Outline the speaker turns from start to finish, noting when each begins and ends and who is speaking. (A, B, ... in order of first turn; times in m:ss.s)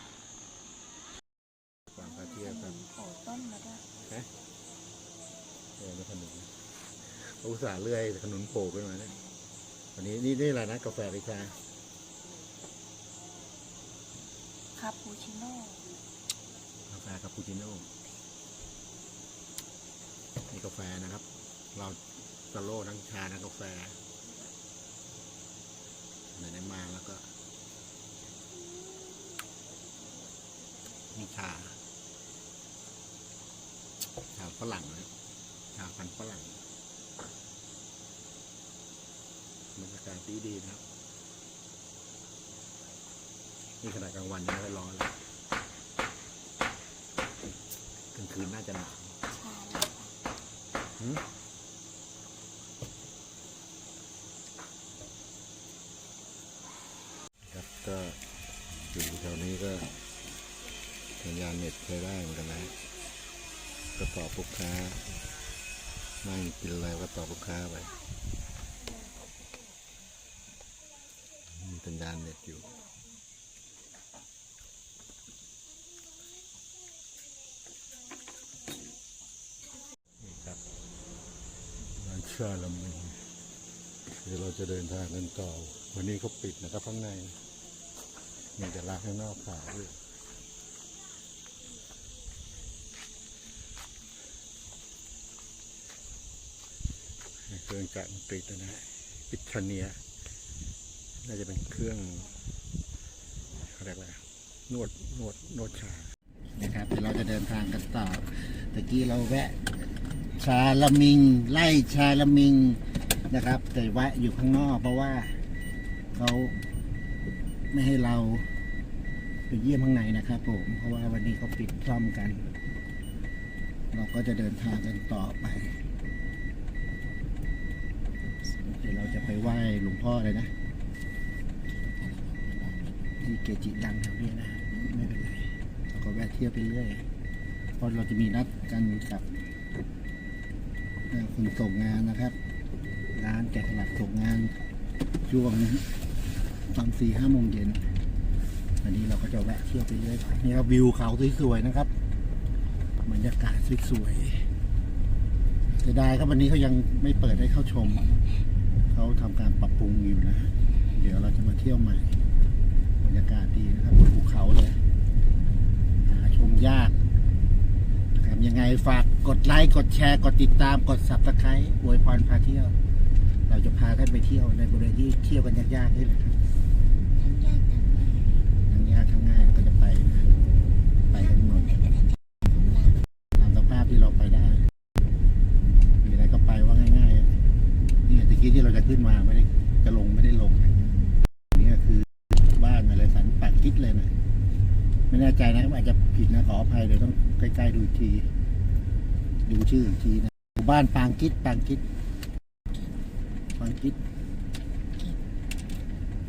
0:01.9-0:02.8 A
0:02.0-0:03.9 B
0:05.8-0:06.5 A
0:07.1-0:09.1 A
0:10.0-0:11.6 A
0:14.8-0:15.9 B
0:16.9-0:17.9 A
0:20.5-0:24.0 A
0:26.3-0:27.3 A
0:31.1-0:31.8 A
0:34.3-0:35.1 A
0:35.7-0:36.6 A
0:39.8-0:40.8 A
0:43.8-0:45.1 A
0:48.1-0:49.2 A
0:49.3-0:50.1 B
0:51.0-0:51.2 A
0:57.4-0:58.2 A
0:58.8-0:59.9 A
1:01.2-1:02.8 A
1:03.9-1:05.0 A
1:06.2-1:07.9 A
1:11.5-1:12.8 A
1:20.2-1:20.6 A
1:22.0-1:23.2 A
1:24.1-1:27.4 A
1:28.6-1:30.0 A
1:37.5-1:40.0 A
1:41.2-1:42.3 A
1:43.6-1:55.4 A
1:56.1-1:56.6 A
1:57.7-1:58.5 A
1:59.5-2:02.5 A
2:03.9-2:05.8 A
2:08.4-2:09.3 B
2:08.6-2:10.5 A
2:11.8-2:12.9 B
2:13.2-2:17.0 A
2:14.7-2:15.0 B
2:17.8-2:19.3 A
2:21.1-2:22.3 A
2:23.1-2:24.5 A
2:25.2-2:25.9 A
2:26.7-2:27.9 A
2:28.8-2:31.9 A
2:33.0-2:34.4 A
2:35.8-2:38.1 A
2:38.9-2:42.2 A
2:43.0-2:44.8 A
2:46.0-2:47.0 A
2:48.1-2:52.7 A
2:53.5-2:56.4 A
2:57.2-2:58.4 B
2:58.6-3:00.3 A
3:01.1-3:01.7 A
3:01.1-3:02.9 B
3:03.4-3:04.6 A
3:06.0-3:07.4 A
3:08.0-3:10.8 A
3:11.5-3:14.1 A
3:15.1-3:18.3 A
3:19.4-3:21.8 A
3:23.6-3:24.0 A